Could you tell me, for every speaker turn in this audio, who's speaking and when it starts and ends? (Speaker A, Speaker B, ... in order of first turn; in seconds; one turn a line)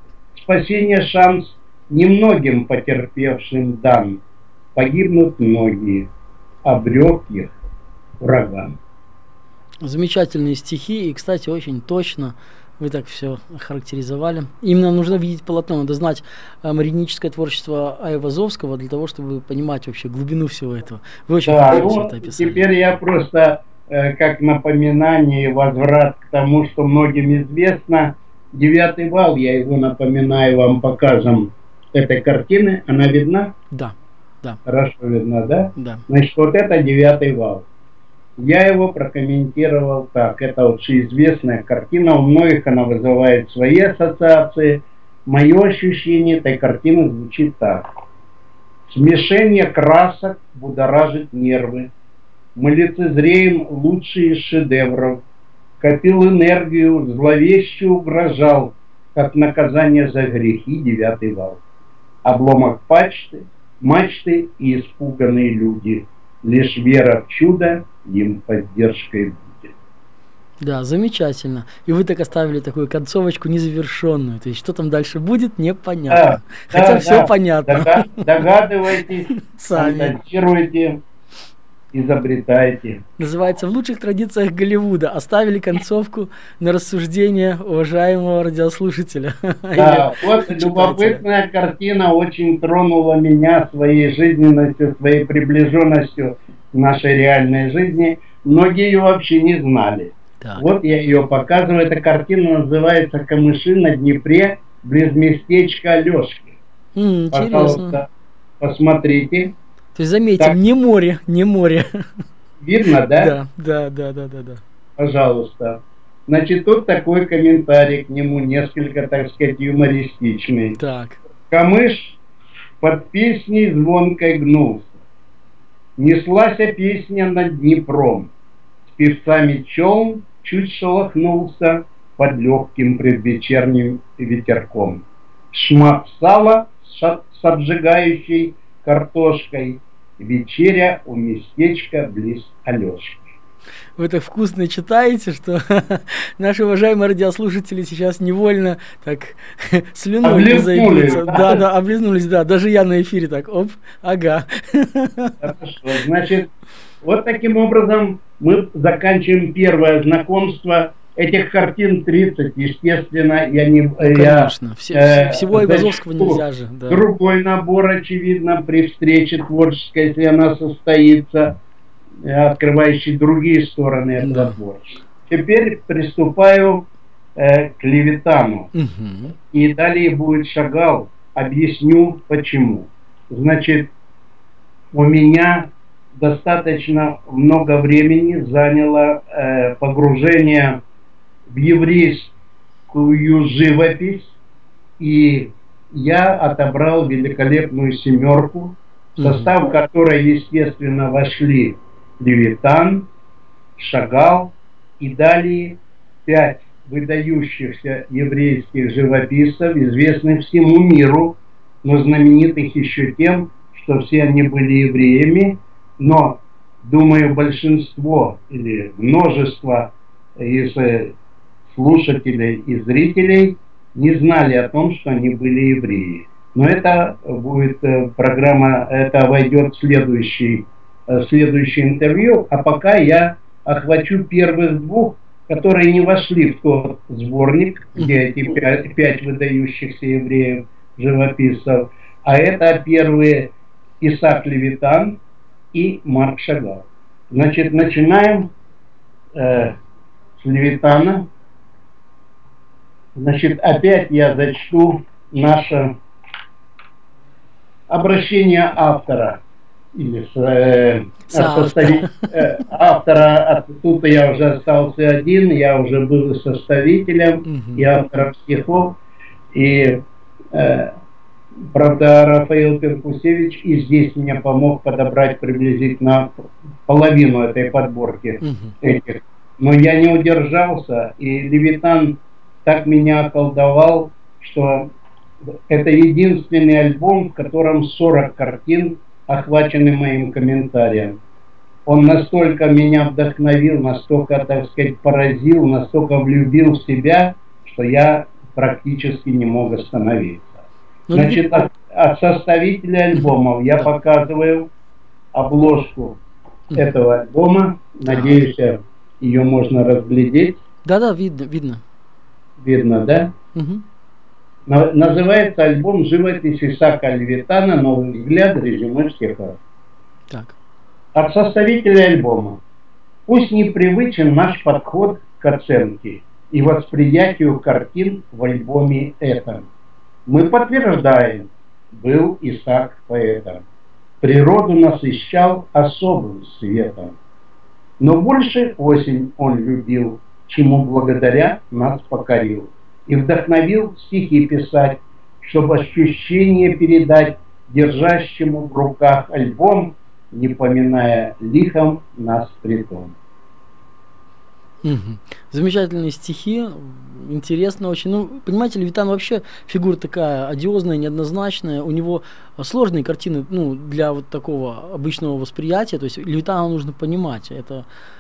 Speaker A: 0.3-4.2
Speaker A: 4.8-6.1
Speaker A: 6.6-7.5
Speaker A: 8.2-8.8
Speaker B: 9.8-22.6
Speaker A: 21.4-33.5
Speaker B: 33.7-34.6
Speaker A: 34.6-37.7
Speaker B: 35.8-36.0
Speaker A: 38.4-47.9
Speaker A: 48.9-51.9
Speaker A: 52.6-55.2
Speaker A: 55.8-61.6
Speaker A: 62.2-69.7
Speaker B: 70.6-78.4
Speaker A: 76.1-81.0
Speaker B: 79.3-80.1
Speaker A: 81.9-83.0
Speaker B: 83.2-91.2
Speaker A: 89.8-106.6
Speaker B: 100.4-100.7
Speaker B: 106.9-108.0
Speaker A: 107.3-108.1
Speaker A: 108.6-109.5
Speaker B: 109.9-112.0
Speaker A: 112.6-113.3
Speaker B: 113.2-114.6
Speaker A: 115.0-120.8
Speaker B: 120.8-121.2
Speaker A: 121.5-122.2
Speaker A: 122.8-125.0
Speaker A: 126.0-128.3
Speaker A: 129.0-143.2
Speaker B: 143.9-155.4
Speaker A: 150.2-151.6
Speaker A: 155.4-156.5
Speaker A: 157.0-171.6
Speaker B: 164.0-167.1
Speaker A: 172.2-178.7
Speaker B: 174.2-174.6
Speaker B: 178.7-179.3
Speaker A: 179.5-183.9
Speaker A: 184.9-190.8
Speaker A: 191.5-192.3
Speaker A: 192.9-194.4
Speaker A: 195.0-203.1
Speaker B: 199.2-199.5
Speaker A: 203.8-221.1
Speaker A: 221.7-245.2
Speaker B: 237.9-238.2
Speaker A: 245.7-248.5
Speaker A: 249.3-249.8
Speaker A: 250.4-251.3
Speaker A: 253.1-255.9
Speaker A: 257.9-259.4
Speaker A: 259.9-269.0
Speaker B: 261.3-262.1
Speaker B: 267.5-267.8
Speaker A: 269.5-270.0
Speaker A: 270.5-270.9
Speaker A: 271.7-284.9
Speaker B: 278.4-278.8
Speaker A: 285.7-291.2
Speaker A: 291.9-300.6
Speaker B: 301.1-301.4
Speaker A: 301.1-304.7
Speaker B: 303.1-303.8
Speaker A: 305.3-306.2
Speaker A: 306.7-310.6
Speaker B: 308.1-308.3
Speaker B: 310.9-311.8
Speaker A: 312.6-313.3
Speaker B: 313.5-313.8
Speaker A: 314.7-319.6
Speaker B: 320.3-320.6
Speaker A: 321.1-322.6
Speaker A: 323.3-329.7
Speaker A: 330.3-333.6
Speaker A: 334.2-337.2
Speaker A: 338.0-353.1
Speaker B: 354.8-367.9